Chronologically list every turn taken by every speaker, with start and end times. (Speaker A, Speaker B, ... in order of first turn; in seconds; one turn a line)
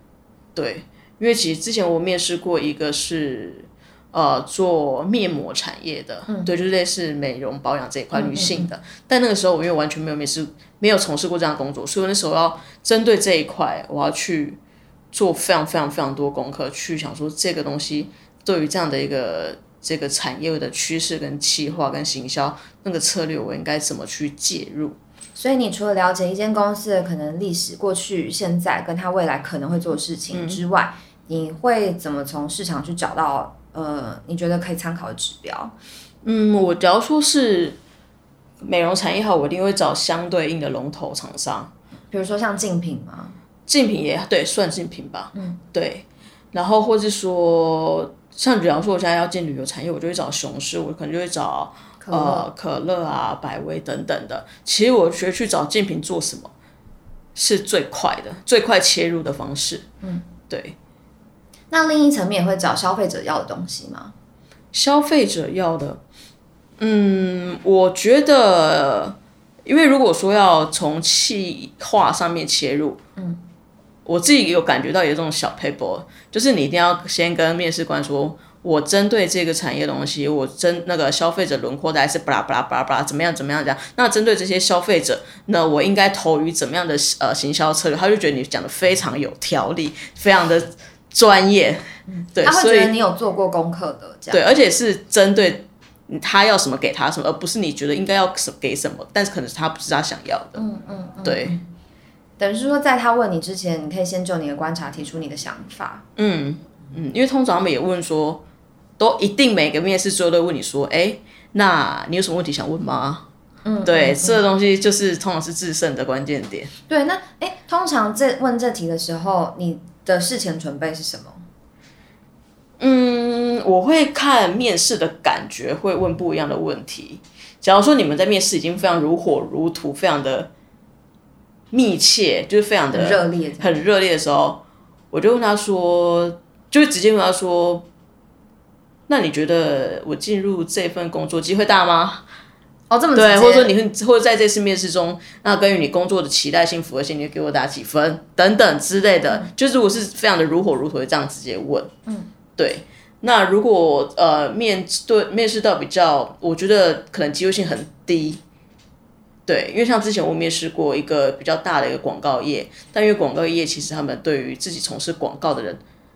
Speaker A: 0.6-14.6
Speaker B: 8.1-8.7
Speaker A: 15.1-25.0
Speaker B: 25.4-35.7
Speaker A: 30.3-30.6
Speaker A: 36.2-37.8
Speaker A: 38.6-41.7
Speaker B: 42.1-43.4
Speaker A: 43.7-56.5
Speaker B: 45.3-45.6
Speaker B: 52.0-52.5
Speaker A: 57.4-59.9
Speaker B: 60.0-60.3
Speaker A: 60.5-60.8
Speaker B: 61.7-64.1
Speaker A: 64.7-66.0
Speaker A: 66.8-73.0
Speaker A: 74.1-92.9
Speaker B: 92.1-94.5
Speaker A: 94.3-100.6
Speaker B: 100.6-101.6
Speaker A: 101.2-101.6
Speaker B: 102.4-106.1
Speaker A: 106.2-108.4
Speaker A: 109.0-113.3
Speaker B: 113.7-114.4
Speaker A: 113.8-116.7
Speaker B: 116.9-121.4
Speaker A: 122.8-130.5
Speaker A: 131.7-137.9
Speaker B: 132.9-133.8
Speaker A: 139.1-142.2
Speaker B: 142.9-143.7
Speaker A: 143.2-151.9
Speaker A: 152.6-158.4
Speaker A: 159.5-165.8